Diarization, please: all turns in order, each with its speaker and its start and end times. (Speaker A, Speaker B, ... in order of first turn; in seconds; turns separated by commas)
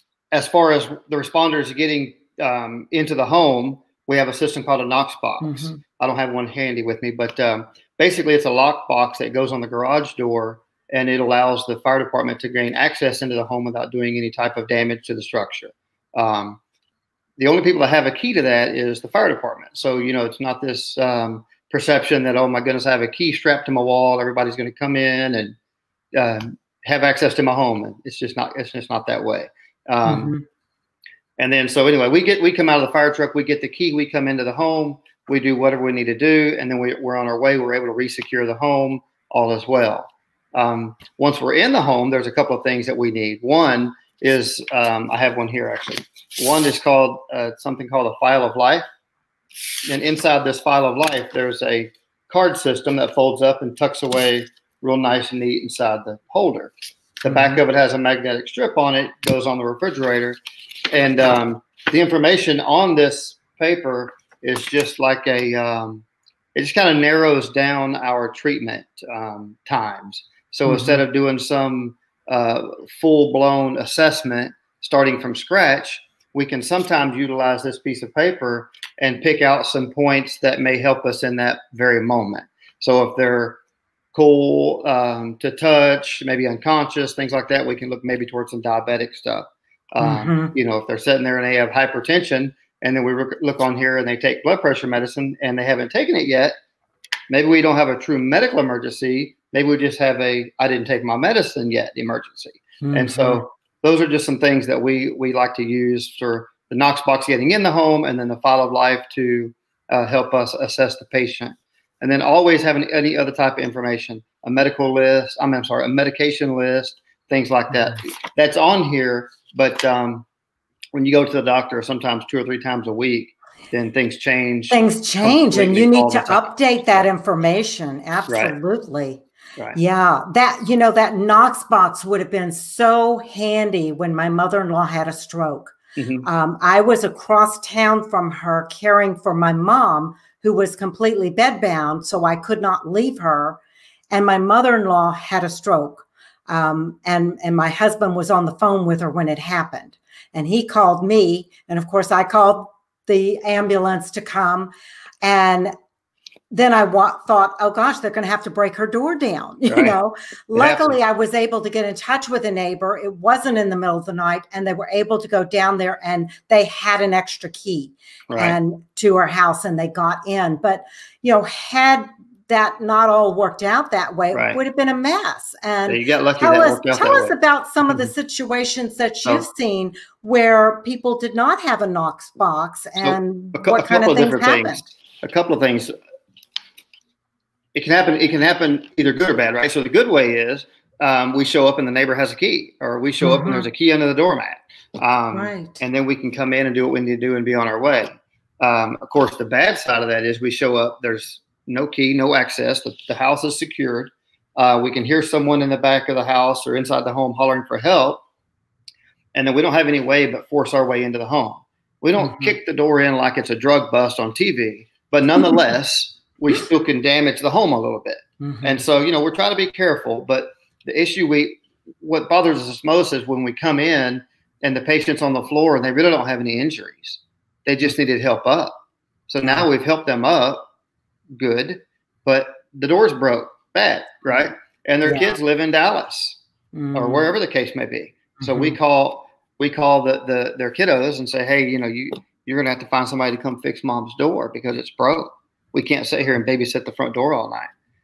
Speaker A: 0.3-16.6, Speaker B: 5.4-5.8, Speaker A: 17.4-25.6, Speaker A: 26.1-30.4, Speaker B: 30.1-30.4, Speaker A: 31.4-48.9, Speaker A: 49.9-60.4, Speaker B: 57.3-57.6, Speaker A: 60.9-66.0, Speaker A: 66.5-83.6, Speaker B: 70.7-71.0, Speaker A: 84.1-96.5, Speaker B: 90.0-90.5, Speaker A: 97.3-120.3, Speaker B: 102.8-103.4, Speaker A: 120.9-127.1, Speaker B: 124.7-129.2, Speaker A: 128.3-128.6, Speaker B: 129.8-143.6, Speaker A: 136.0-136.3, Speaker B: 144.1-154.7, Speaker B: 155.2-155.7, Speaker B: 156.5-184.9, Speaker A: 159.7-159.9, Speaker A: 160.5-161.0, Speaker A: 168.3-168.6, Speaker A: 174.3-174.6, Speaker A: 175.9-177.3, Speaker A: 183.0-185.9, Speaker A: 187.7-208.2, Speaker B: 193.2-193.6, Speaker B: 195.3-195.8, Speaker A: 209.3-228.8, Speaker B: 212.2-212.5, Speaker B: 218.4-218.7, Speaker A: 229.3-230.7, Speaker A: 231.4-236.4, Speaker B: 236.7-237.2, Speaker A: 236.9-247.7, Speaker B: 238.4-238.8